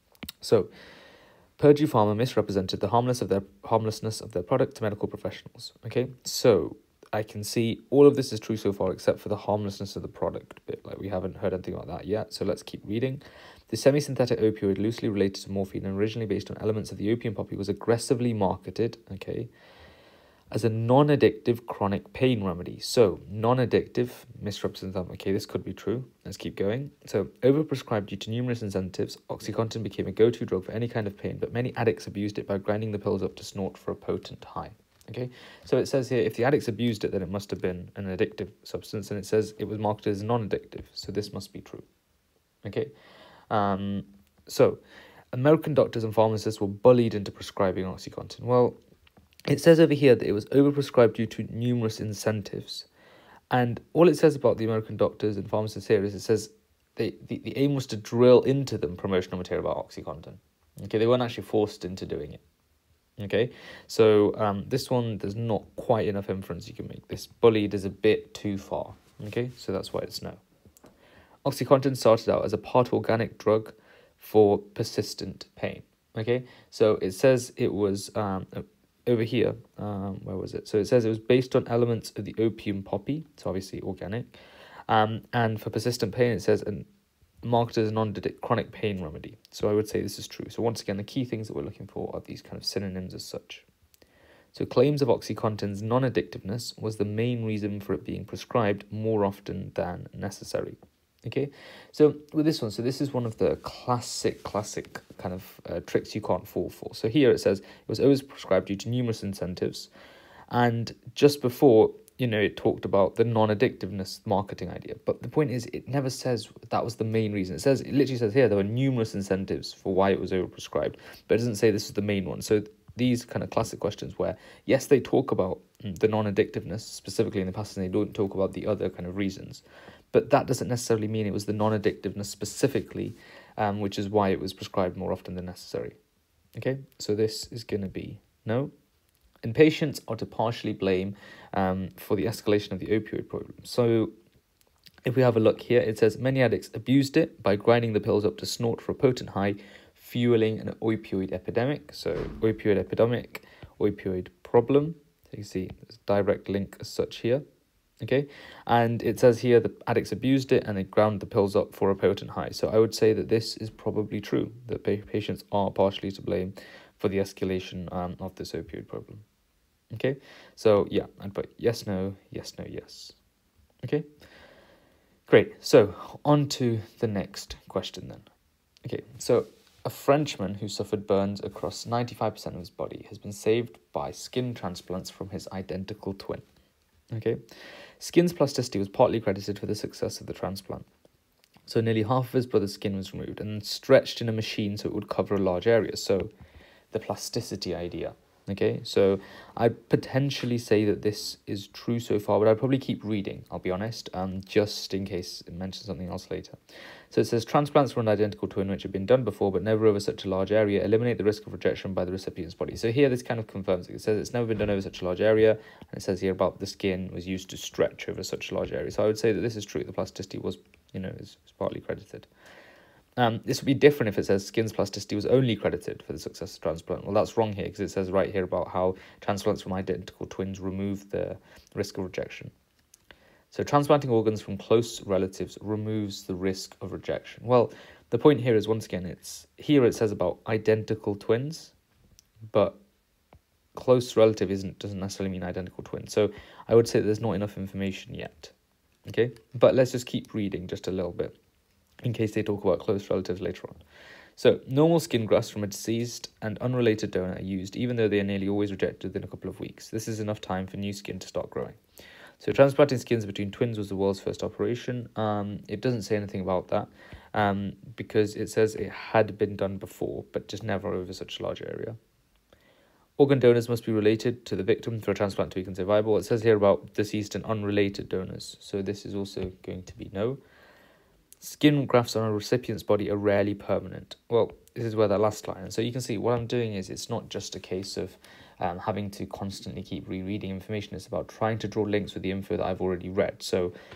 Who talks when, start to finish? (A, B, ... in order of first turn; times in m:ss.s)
0:00.4-0:00.7 A
0:01.6-0:19.5 A
0:20.5-0:41.9 A
0:42.6-0:42.9 A
0:43.5-0:44.8 A
0:45.3-0:48.8 A
0:49.5-0:52.9 A
0:53.5-1:02.4 A
1:03.2-1:10.4 A
1:11.4-1:24.3 A
1:24.9-1:26.9 A
1:27.4-1:33.7 A
1:34.5-1:49.9 A
1:50.5-2:16.0 A
2:16.6-2:18.7 A
2:19.4-2:24.2 A
2:25.0-2:37.4 A
2:38.0-2:49.2 A
2:49.9-2:53.2 A
2:53.8-2:54.1 A
2:55.3-2:58.3 A
2:58.8-3:06.4 A
3:07.1-3:07.4 A
3:08.0-3:10.9 A
3:11.7-3:16.3 A
3:16.9-3:26.6 A
3:27.1-3:42.3 A
3:43.2-3:52.5 A
3:53.5-4:01.7 A
4:02.5-4:02.8 A
4:03.8-4:08.5 A
4:09.1-4:11.4 A
4:12.0-4:13.8 A
4:14.4-4:21.8 A
4:22.4-4:32.0 A
4:33.2-4:40.4 A
4:41.4-4:53.7 A